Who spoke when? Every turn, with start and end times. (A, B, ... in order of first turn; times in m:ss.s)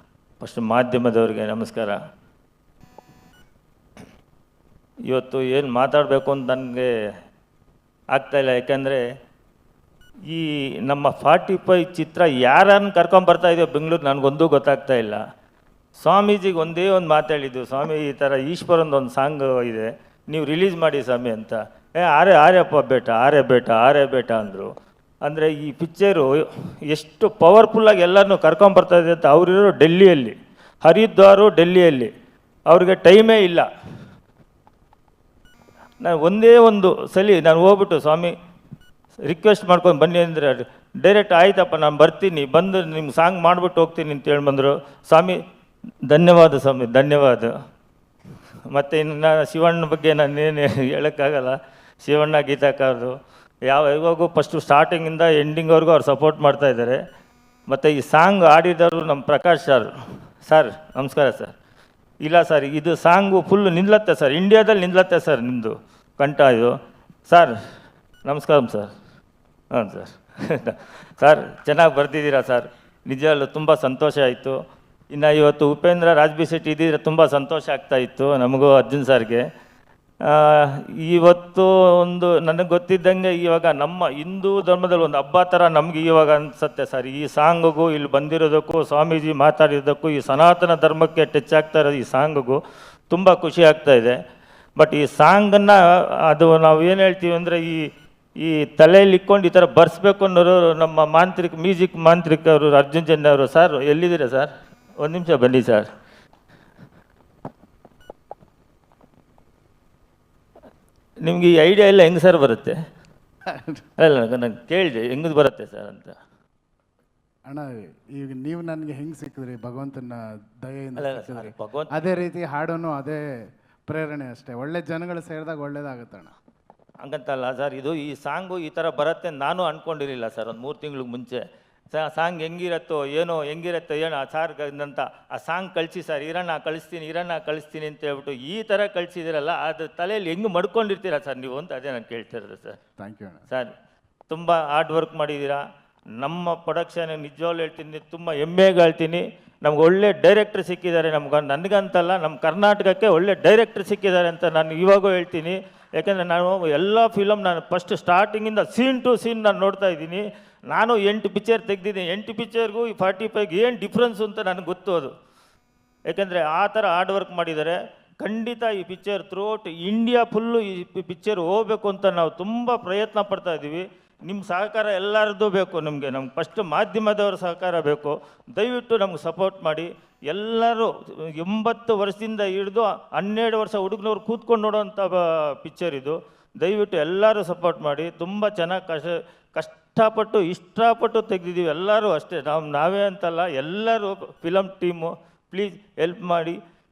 0:00.4-0:02.0 A
0:05.1-0:06.9 A
0:08.1-0:09.0 A
0:10.3-0:15.2 A
0:16.0-0:24.7 A
0:25.2-0:26.3 A
0:26.9-0:32.1 A
0:32.7-0:33.7 A
0:36.0-0:38.3 A
0:39.3-0:45.4 A
0:46.1-0:47.5 A
0:48.7-0:53.1 A
0:53.7-0:57.0 A
0:57.7-0:59.9 A
1:00.5-1:01.5 A
1:02.2-1:06.7 A
1:07.3-1:07.5 A
1:08.2-1:08.9 A
1:09.7-1:14.6 A
1:15.1-1:19.4 A
1:20.2-1:32.6 A
1:33.1-1:34.2 A
1:34.8-1:37.8 A
1:38.4-1:45.9 A
1:51.2-1:52.8 A
1:53.5-1:53.8 B
1:54.0-1:56.2 A
1:57.5-2:03.2 B
2:01.0-2:02.2 A
2:03.9-2:06.4 B
2:07.0-2:22.8 A
2:23.0-2:23.4 B
2:24.3-2:25.6 A
2:26.2-2:45.1 A
2:46.1-3:16.6 A